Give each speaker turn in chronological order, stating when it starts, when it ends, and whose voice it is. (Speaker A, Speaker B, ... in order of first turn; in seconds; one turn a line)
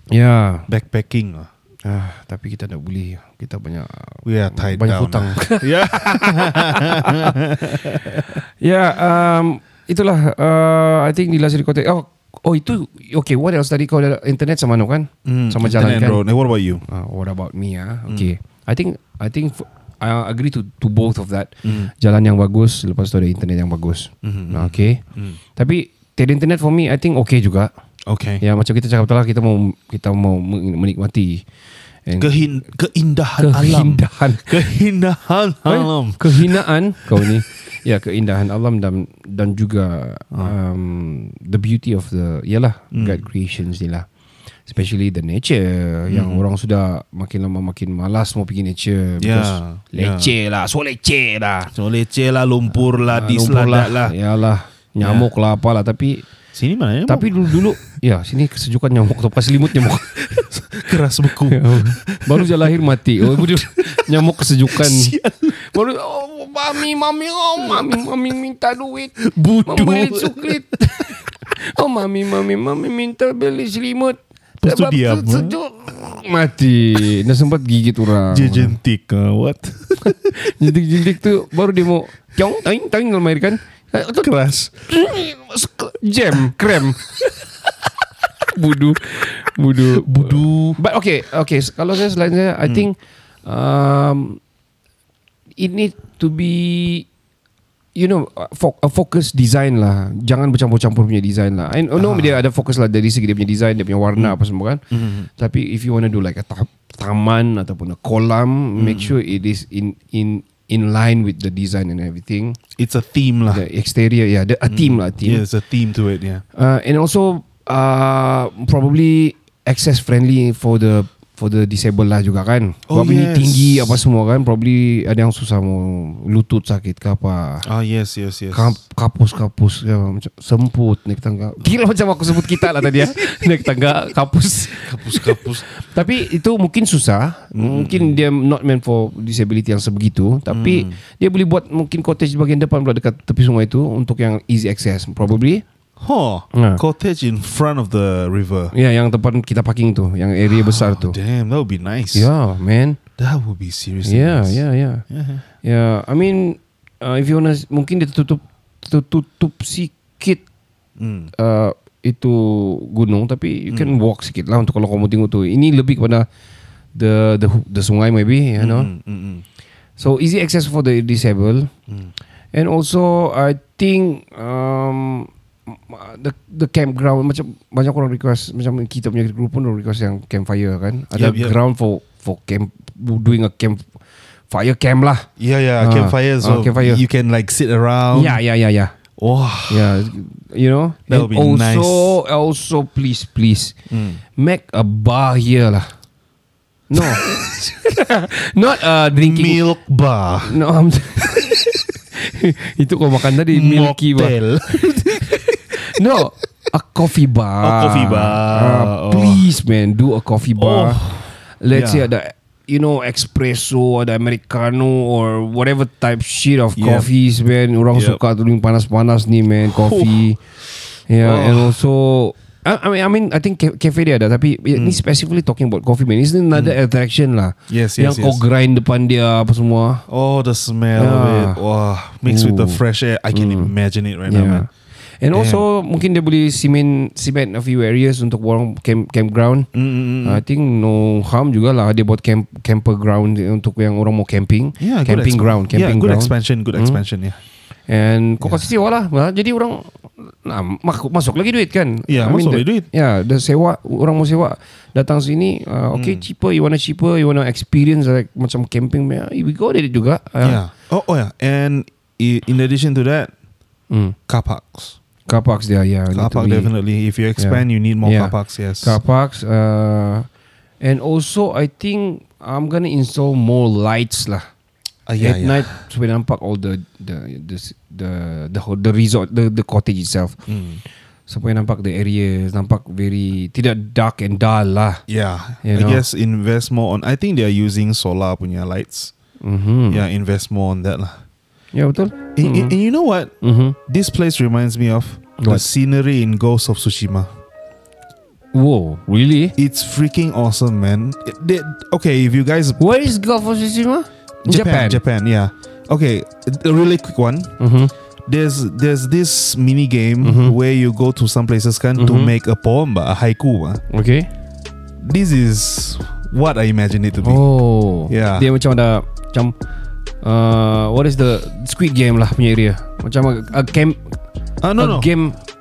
Speaker A: 0.1-0.7
Speaker B: 0.7-1.5
Speaker A: 1.8-7.3
Speaker B: 4.2-8.4
Speaker A: 8.6-16.2
Speaker B: 15.2-16.8
Speaker A: 16.9-25.0
Speaker B: 21.6-21.9
Speaker B: 24.2-25.4
Speaker A: 25.6-27.7
Speaker B: 28.1-28.4
Speaker A: 28.4-31.4
Speaker A: 32.0-32.5
Speaker B: 32.2-37.3
Speaker A: 33.4-34.5
Speaker A: 35.6-44.0
Speaker B: 42.9-43.2
Speaker A: 44.7-51.7
Speaker B: 46.1-46.4
Speaker B: 49.2-50.3
Speaker B: 51.7-54.1
Speaker A: 53.1-56.2
Speaker B: 55.0-55.3
Speaker B: 56.5-57.7
Speaker A: 57.1-60.1
Speaker B: 60.1-65.6
Speaker A: 61.5-78.8
Speaker B: 67.6-68.0
Speaker B: 69.2-71.1
Speaker B: 74.6-75.6
Speaker B: 78.3-80.4
Speaker A: 80.3-84.3
Speaker B: 84.2-84.9
Speaker A: 84.9-87.0
Speaker A: 88.5-94.4
Speaker B: 89.8-90.8
Speaker A: 95.6-97.0
Speaker A: 97.9-104.8
Speaker B: 102.0-102.4
Speaker B: 104.9-105.3
Speaker A: 105.4-112.6
Speaker B: 108.8-109.2
Speaker B: 112.8-113.7
Speaker A: 113.5-115.4
Speaker B: 114.7-116.4
Speaker A: 116.5-127.7
Speaker B: 122.9-124.0
Speaker B: 127.6-128.8
Speaker A: 128.5-145.6
Speaker B: 132.4-133.3
Speaker B: 134.8-135.6
Speaker B: 137.5-138.2
Speaker B: 140.5-141.0
Speaker B: 146.0-148.7
Speaker A: 146.5-146.8
Speaker A: 148.7-151.2
Speaker B: 150.5-152.3
Speaker A: 152.1-153.0
Speaker B: 153.2-155.4
Speaker A: 154.0-155.0
Speaker A: 155.6-160.4
Speaker B: 161.0-161.3
Speaker A: 161.3-166.2
Speaker B: 163.7-163.9
Speaker A: 166.9-168.9
Speaker B: 168.6-169.4
Speaker A: 170.0-171.7
Speaker A: 172.5-183.9
Speaker B: 181.1-181.6
Speaker A: 184.5-185.3
Speaker B: 185.4-188.4
Speaker A: 185.8-187.0
Speaker A: 188.1-188.9
Speaker B: 189.2-190.1
Speaker A: 189.7-193.7
Speaker B: 191.1-192.2
Speaker B: 193.9-194.2
Speaker A: 194.3-195.9
Speaker A: 196.9-197.3
Speaker B: 196.9-197.8
Speaker A: 197.9-199.6
Speaker B: 199.1-200.6
Speaker A: 200.4-204.3
Speaker B: 201.2-201.6
Speaker B: 203.5-205.8
Speaker A: 205.0-211.0
Speaker B: 207.6-209.4
Speaker B: 210.6-212.1
Speaker A: 211.6-220.4
Speaker B: 216.8-217.1
Speaker B: 217.9-218.2
Speaker B: 219.6-220.3
Speaker A: 221.1-230.0
Speaker B: 221.2-221.8
Speaker B: 224.7-225.0
Speaker B: 227.7-228.4
Speaker B: 230.1-234.7
Speaker A: 230.9-231.6
Speaker A: 232.2-232.8
Speaker A: 233.3-233.7
Speaker A: 234.3-234.7
Speaker A: 235.2-239.7
Speaker B: 235.3-235.6
Speaker B: 239.7-240.4
Speaker A: 240.2-247.0
Speaker B: 244.8-247.4
Speaker A: 247.9-260.6
Speaker B: 252.1-252.9
Speaker B: 255.9-256.2
Speaker B: 260.4-263.3
Speaker A: 263.9-264.1
Speaker B: 264.3-265.0
Speaker A: 265.3-266.7
Speaker B: 266.1-269.0
Speaker A: 267.4-270.3
Speaker A: 270.8-274.5
Speaker B: 275.1-275.7
Speaker A: 275.2-280.4
Speaker B: 280.5-280.8
Speaker A: 281.3-285.0
Speaker B: 285.1-289.1
Speaker A: 285.6-286.0
Speaker A: 289.4-290.0
Speaker B: 289.9-291.2
Speaker A: 291.7-292.8
Speaker B: 292.4-293.3
Speaker A: 293.4-293.8
Speaker B: 293.9-297.3
Speaker A: 295.4-295.6
Speaker A: 298.5-299.5
Speaker B: 299.6-302.8
Speaker A: 302.8-305.0
Speaker B: 304.4-307.5
Speaker A: 307.6-307.9
Speaker B: 308.3-313.8
Speaker A: 310.2-310.5
Speaker A: 312.0-312.3
Speaker A: 313.9-314.3
Speaker B: 315.0-317.4
Speaker A: 317.2-319.5
Speaker B: 318.1-318.5
Speaker A: 320.2-324.0
Speaker B: 324.6-325.1
Speaker A: 324.8-325.4